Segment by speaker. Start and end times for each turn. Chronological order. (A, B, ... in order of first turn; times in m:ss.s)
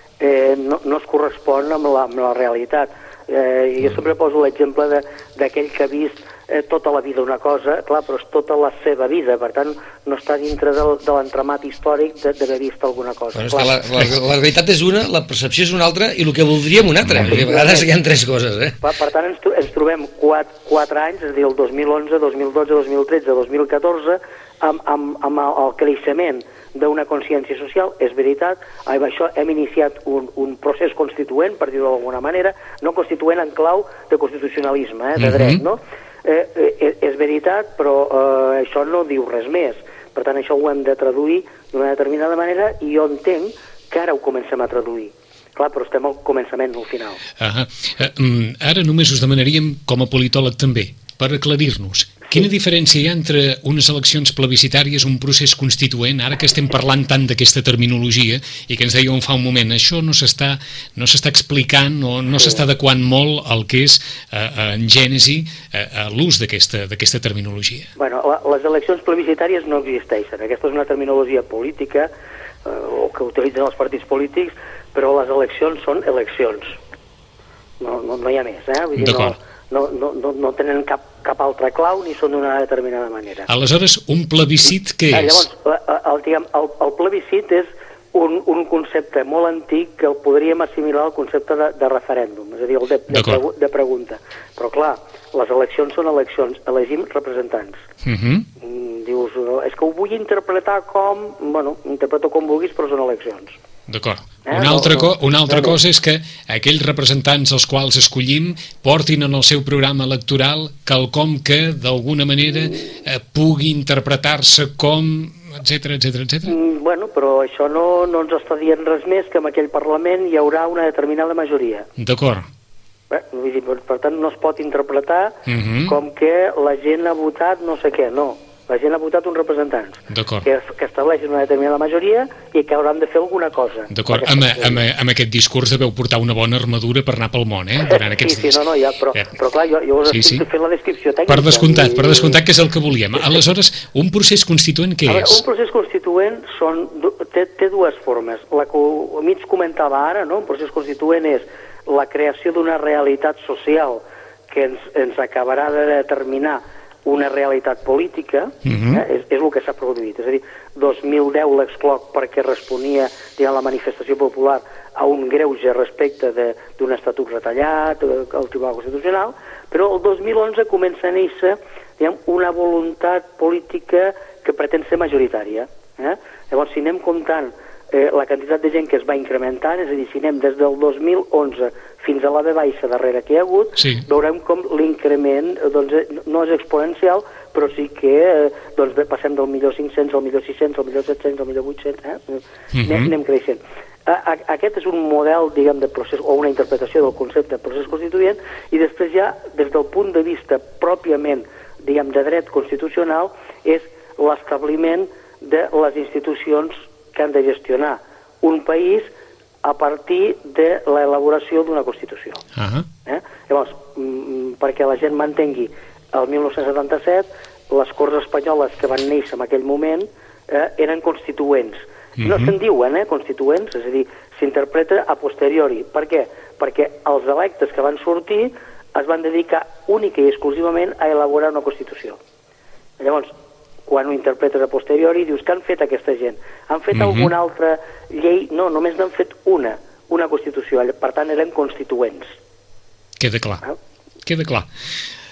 0:00.2-0:13.8 A
0:13.4-0:18.8 B
0:17.3-0:17.9 A
0:18.8-0:47.2 A
0:35.2-0:35.6 C
0:47.4-1:07.9 C
1:08.0-1:12.1 A
1:12.6-1:16.8 A
1:17.8-1:23.5 A
1:19.0-1:19.4 C
1:23.5-1:25.5 C
1:25.1-1:37.8 A
1:33.1-1:33.4 C
1:38.0-1:38.5 C
1:38.6-1:43.6 A
1:43.9-1:56.6 C
1:44.4-1:45.8 A
1:56.4-2:01.9 A
2:02.0-2:02.5 C
2:03.1-2:14.8 A
2:05.5-2:05.9 C
2:10.1-2:10.4 C
2:13.9-2:18.5 C
2:17.9-2:22.4 A
2:20.1-2:20.4 C
2:21.3-2:25.4 C
2:25.1-3:29.1 A
2:38.6-2:39.0 C
3:03.8-3:04.0 C
3:12.7-3:13.1 C
3:29.6-3:32.4 A
3:32.6-3:32.9 C
3:33.1-3:52.2 A
3:42.2-3:42.5 C
3:53.0-3:53.4 A
3:53.9-4:02.4 A
3:56.9-3:57.3 C
4:03.2-4:03.6 C
4:04.2-4:04.7 C